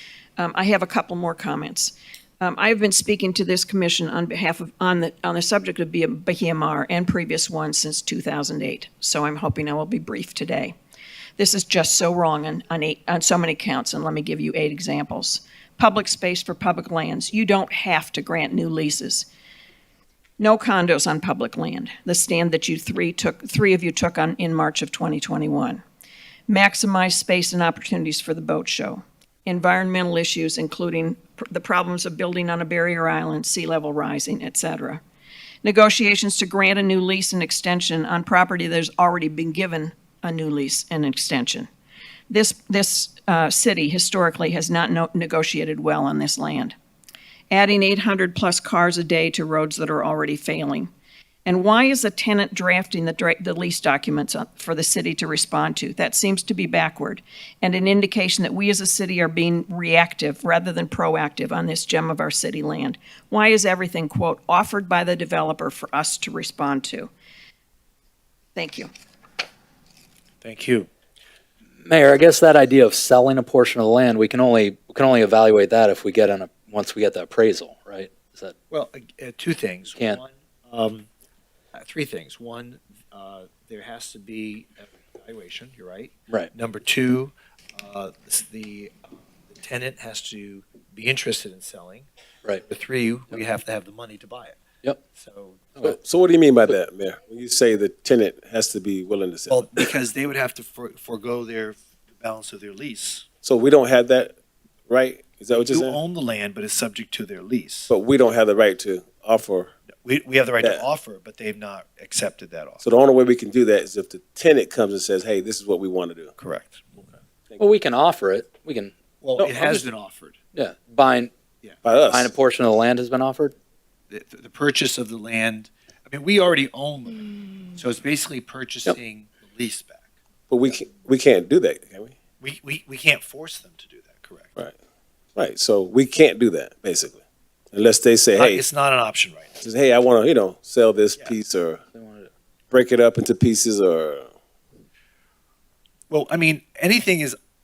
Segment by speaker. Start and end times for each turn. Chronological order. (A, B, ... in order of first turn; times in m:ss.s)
0:00.4-0:10.7 A
0:11.4-0:19.3 A
0:20.4-0:25.8 A
0:26.5-0:35.0 A
0:35.6-0:41.7 A
0:42.3-0:46.7 A
0:47.5-0:50.9 A
0:51.4-1:07.1 A
1:08.6-1:08.9 A
1:10.4-1:10.9 B
1:11.8-1:18.5 C
1:18.7-1:21.1 B
1:21.7-1:32.1 B
1:32.6-1:34.6 B
1:35.1-1:35.7 B
1:35.8-1:39.8 D
1:39.5-1:43.3 B
1:43.4-1:44.3 D
1:44.9-1:46.0 D
1:45.5-1:47.9 B
1:47.9-1:49.7 D
1:50.0-1:52.8 B
1:52.8-1:56.3 D
1:56.4-1:56.8 B
1:57.6-1:59.9 C
1:59.2-2:00.4 B
2:00.5-2:01.3 C
2:01.8-2:02.3 D
2:02.1-2:03.5 C
2:04.1-2:10.1 B
2:10.5-2:12.2 D
2:12.4-2:14.6 B
2:15.4-2:17.2 D
2:17.7-2:18.6 D
2:18.4-2:19.6 B
2:19.6-2:21.8 D
2:21.9-2:22.3 C
2:22.7-2:24.3 D
2:26.1-2:27.4 B